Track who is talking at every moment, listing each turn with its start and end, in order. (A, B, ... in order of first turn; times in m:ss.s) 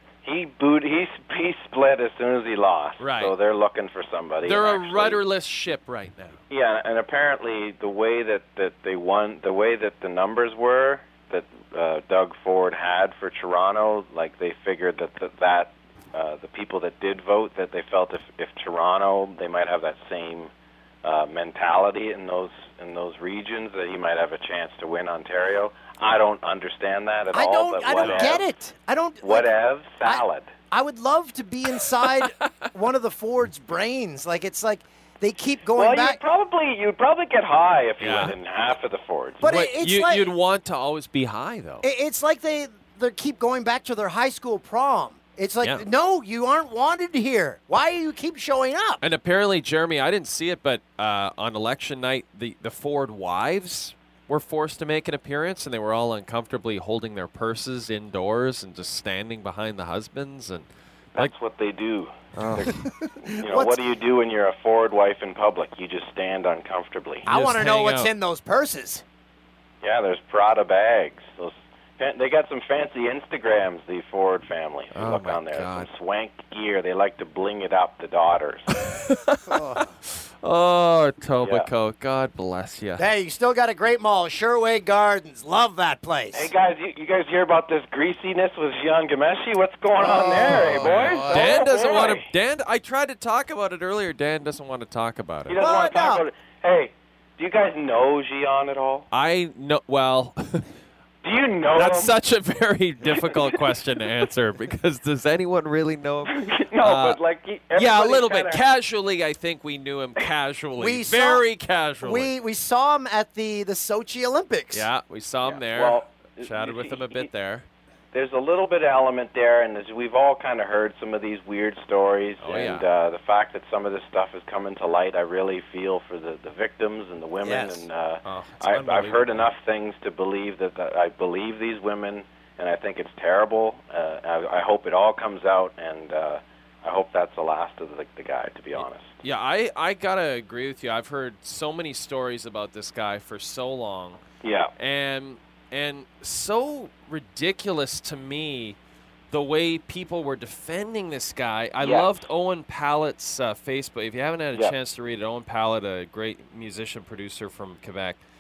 0:00.2-0:05.2 A
0:03.0-0:03.3 B
0:04.4-0:06.4 B
0:06.5-0:20.5 A
0:21.0-0:28.4 A
0:27.3-0:29.5 C
0:28.0-0:28.4 B
0:29.2-0:30.5 A
0:30.0-0:36.2 C
0:32.2-0:32.5 B
0:35.7-0:39.6 A
0:38.0-0:38.3 B
0:39.4-0:40.3 C
0:39.4-0:41.8 B
0:41.8-0:49.0 C
0:49.0-1:00.7 B
1:01.2-1:07.3 A
1:02.4-1:02.7 B
1:02.5-1:03.7 C
1:07.2-1:08.1 B
1:07.2-1:09.0 C
1:09.8-1:18.7 A
1:14.9-1:15.9 B
1:18.8-1:19.6 B
1:19.5-1:19.9 C
1:20.4-1:23.0 B
1:21.4-1:21.7 A
1:23.0-1:26.5 C
1:26.3-1:32.3 A
1:30.0-1:31.5 C
1:30.4-1:35.6 B
1:35.5-1:39.0 A
1:35.6-1:36.2 C
1:39.1-1:40.6 B
1:41.2-1:42.1 A
1:41.7-1:47.2 B
1:43.1-1:43.6 A
1:46.2-1:48.6 A
1:47.7-1:52.3 B
1:50.8-1:51.4 C
1:52.0-1:54.9 C
1:54.7-1:57.6 B
1:55.4-1:57.3 A
1:58.1-2:19.1 A
2:02.4-2:02.8 B
2:07.4-2:07.8 C
2:08.2-2:09.4 B
2:19.2-2:24.2 B
2:24.4-2:24.7 A
2:24.8-2:28.8 B
2:29.3-2:38.2 B
2:31.8-2:32.1 A